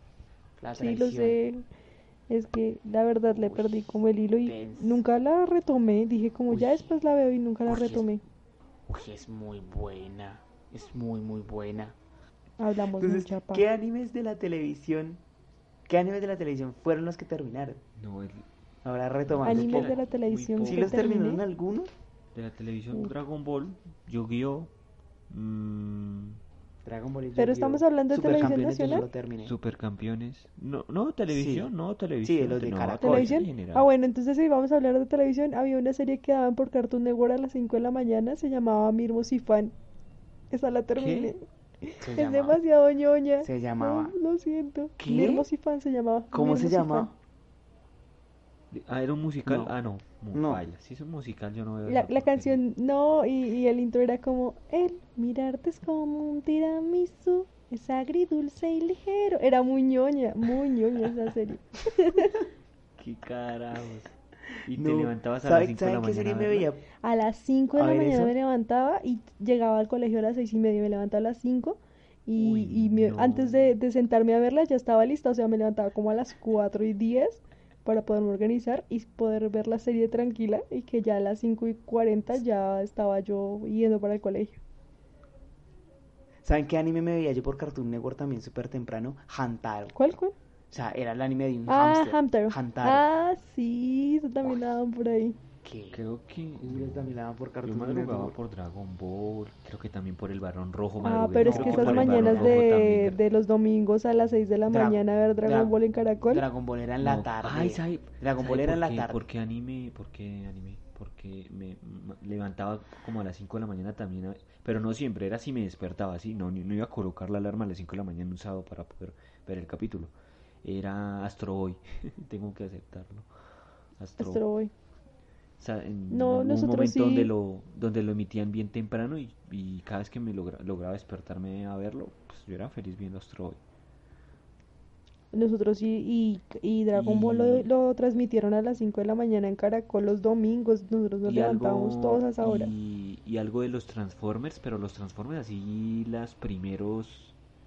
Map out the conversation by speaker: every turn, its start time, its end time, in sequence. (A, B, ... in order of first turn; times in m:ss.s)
0:00.6-0:01.4 A
0:00.8-0:01.6 B
0:02.3-0:08.2 B
0:03.3-0:03.9 A
0:04.4-0:05.0 A
0:06.5-0:06.9 A
0:07.6-0:08.2 A
0:08.9-0:11.9 A
0:12.6-0:13.6 B
0:13.0-0:15.2 A
0:15.9-0:17.8 A
0:18.0-0:18.4 C
0:18.8-0:20.0 A
0:19.3-0:21.1 C
0:19.4-0:21.4 B
0:20.6-0:21.9 A
0:22.3-0:24.7 C
0:25.3-0:26.4 C
0:26.8-0:29.5 A
0:27.4-0:29.0 B
0:29.4-0:33.9 C
0:31.3-0:31.7 A
0:32.2-0:33.4 A
0:33.0-0:39.7 B
0:40.5-0:47.1 B
0:40.9-0:41.3 C
0:42.0-0:42.6 A
0:43.4-0:44.2 A
0:45.0-0:45.5 A
0:46.3-0:47.1 A
0:48.7-0:52.6 C
0:49.4-0:49.7 A
0:50.3-0:50.6 A
0:51.8-1:02.4 B
1:03.0-1:04.1 C
1:04.6-1:06.7 C
1:04.7-1:06.8 A
1:07.0-1:24.6 B
1:07.8-1:08.3 A
1:12.3-1:13.6 C
1:26.4-1:30.0 A
1:29.9-1:30.3 B
1:30.7-1:33.1 A
1:31.7-1:35.4 B
1:35.6-1:36.0 A
1:35.9-1:43.2 C
1:36.6-1:38.4 A
1:41.0-1:46.4 B
1:41.4-1:42.6 A
1:44.7-1:49.2 A
1:47.0-2:00.1 C
2:00.6-2:03.3 C
2:04.0-2:04.4 C
2:04.2-2:04.7 B
2:05.6-2:13.6 C
2:06.1-2:07.3 B
2:15.3-2:22.7 B
2:16.9-2:17.7 C
2:21.2-2:27.4 C